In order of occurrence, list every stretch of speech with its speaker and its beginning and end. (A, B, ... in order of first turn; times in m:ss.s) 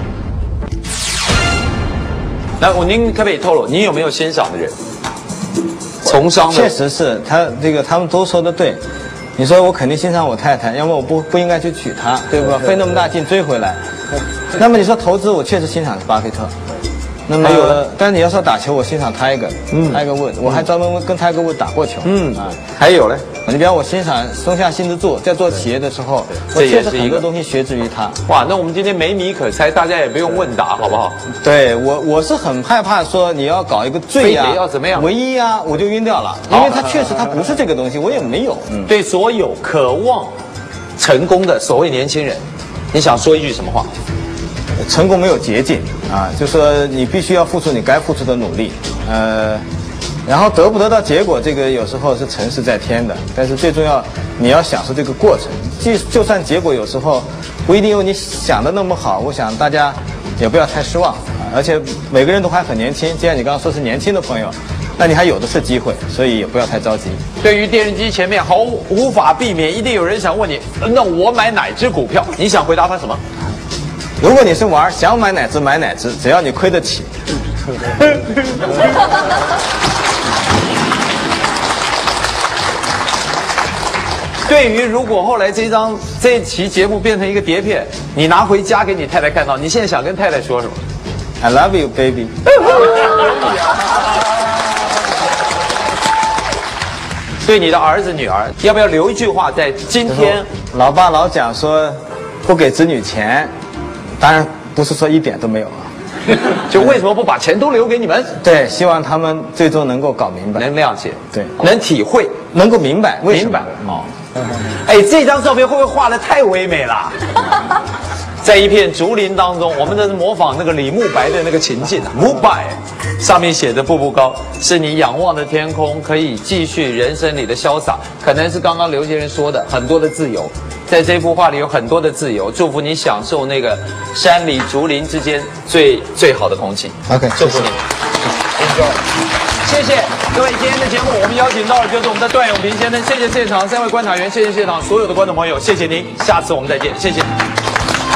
0:02.6-0:04.7 A
0:06.0-0:06.7 A
0:06.4-0:08.8 B
0:09.4-0:13.8 B
0:14.5-0:16.5 B
0:17.3-0:22.6 B
0:17.4-0:17.8 A
0:19.7-0:20.0 A
0:22.0-0:23.3 A
0:23.3-0:28.2 B
0:26.5-0:27.3 A
0:28.3-0:31.2 A
0:31.4-0:38.9 B
0:34.2-0:35.1 A
0:36.5-0:36.8 A
0:38.9-0:40.3 A
0:41.0-0:42.4 A
0:42.9-0:43.9 A
0:44.8-0:49.6 B
0:50.3-1:07.2 B
1:07.4-1:13.2 A
1:14.2-1:17.1 B
1:24.5-1:30.8 A
1:31.4-1:32.5 B
1:37.4-1:40.5 A
1:40.1-1:43.5 B
1:44.2-1:45.9 B
1:46.3-1:48.3 A
1:48.4-1:50.7 B
1:50.6-1:52.4 A
1:52.5-1:54.0 B
1:53.3-1:54.0 A
1:54.7-1:57.6 A
1:58.4-2:17.8 A
2:17.1-2:17.7 B
2:18.6-2:19.0 A
2:19.6-2:27.3 A